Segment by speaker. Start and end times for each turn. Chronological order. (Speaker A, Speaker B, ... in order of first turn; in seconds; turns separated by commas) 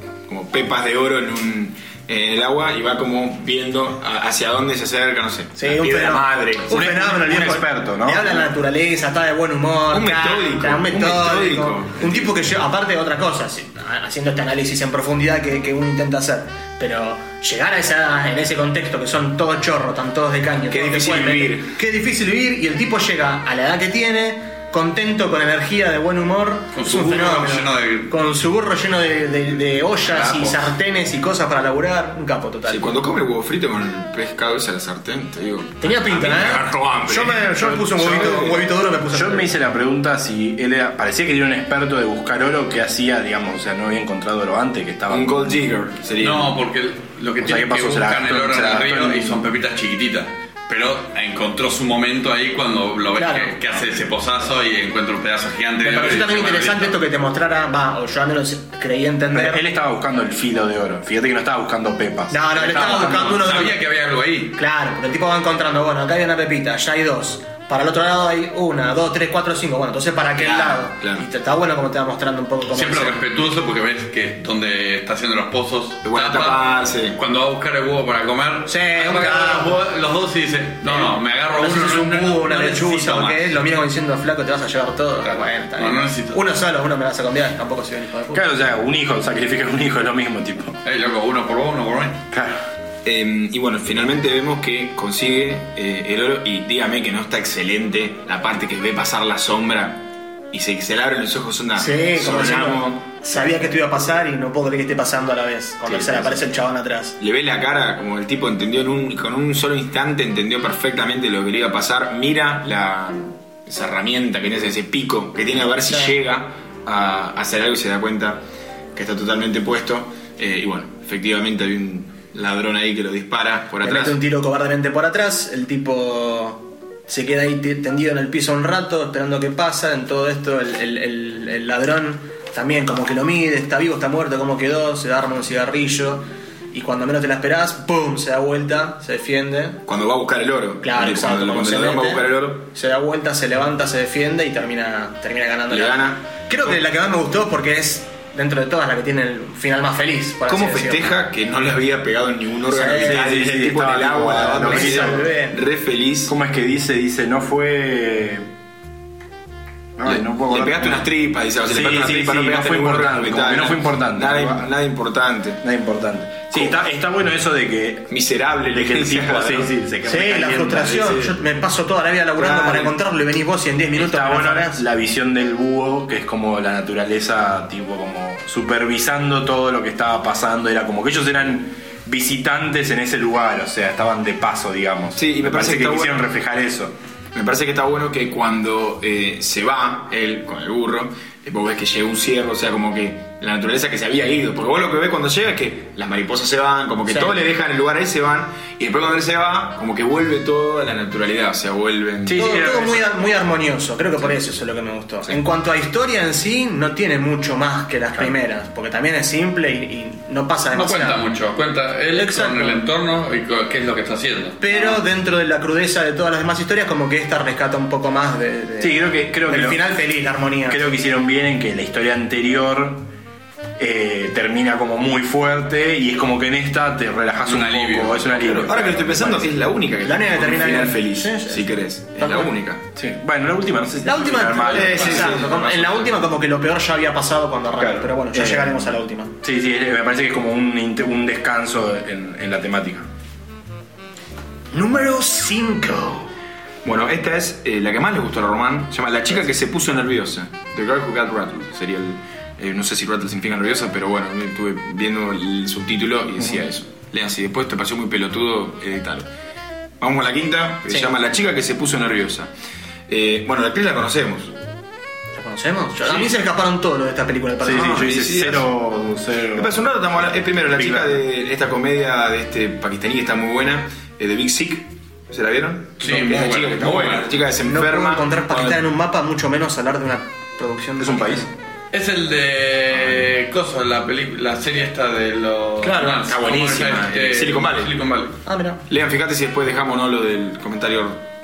Speaker A: 0.3-6.7, Speaker B: 5.6-32.9, Speaker C: 6.7-8.4, Speaker A: 9.9-12.4, Speaker A: 20.7-21.7, Speaker D: 26.7-28.1, Speaker D: 30.1-30.7, Speaker A: 32.7-38.6, Speaker B: 35.8-39.5, Speaker C: 37.5-38.6, Speaker C: 39.1-45.6, Speaker A: 45.1-46.5, Speaker D: 46.2-57.0, Speaker C: 47.4-49.4, Speaker B: 53.1-53.6, Speaker B: 55.8-59.6, Speaker C: 59.3-63.4, Speaker B: 62.3-63.8, Speaker D: 62.7-64.5, Speaker B: 64.5-73.2, Speaker A: 70.4-71.2, Speaker D: 72.7-83.6, Speaker A: 76.0-77.2, Speaker B: 78.7-79.8, Speaker B: 80.8-88.4, Speaker D: 85.2-86.4, Speaker C: 88.3-90.8, Speaker D: 90.8-92.2, Speaker C: 92.3-92.6, Speaker A: 93.0-103.6, Speaker B: 101.8-107.2, Speaker A: 105.8-106.5, Speaker A: 107.2-118.4, Speaker A: 118.9-124.2, Speaker B: 123.8-139.8, Speaker A: 139.8-142.7, Speaker B: 140.8-151.1, Speaker A: 145.7-146.8, Speaker A: 150.5-156.3, Speaker B: 152.7-153.3, Speaker C: 152.8-155.3, Speaker B: 154.6-155.6, Speaker C: 156.3-158.5, Speaker C: 160.0-161.1, Speaker A: 160.0-165.6, Speaker C: 161.6-164.7, Speaker C: 165.6-168.1, Speaker A: 168.1-169.7, Speaker C: 168.7-171.3, Speaker B: 170.1-174.8, Speaker A: 170.9-171.3, Speaker A: 172.4-172.9, Speaker C: 173.9-186.9, Speaker A: 185.2-186.2, Speaker A: 187.3-202.8, Speaker B: 197.1-197.3, Speaker C: 202.2-203.2, Speaker B: 202.3-211.2, Speaker D: 210.7-214.6, Speaker B: 212.1-212.8, Speaker B: 214.6-220.8, Speaker C: 218.8-219.8, Speaker C: 220.7-223.1, Speaker C: 223.8-229.5, Speaker D: 227.4-228.6, Speaker A: 228.4-232.8, Speaker B: 230.0-232.5, Speaker C: 232.9-235.5, Speaker B: 234.0-239.3, Speaker A: 234.6-236.2, Speaker C: 237.8-243.1, Speaker B: 244.7-246.3, Speaker A: 246.8-259.3, Speaker A: 260.0-262.5, Speaker A: 263.1-264.5, Speaker B: 265.3-268.1, Speaker C: 267.6-271.2, Speaker A: 267.9-268.7, Speaker A: 269.5-278.8, Speaker D: 276.0-277.3, Speaker B: 277.6-281.5, Speaker C: 281.0-281.4, Speaker D: 281.9-288.4, Speaker B: 285.8-286.2, Speaker A: 286.2-287.9, Speaker B: 288.4-288.8, Speaker A: 288.9-291.2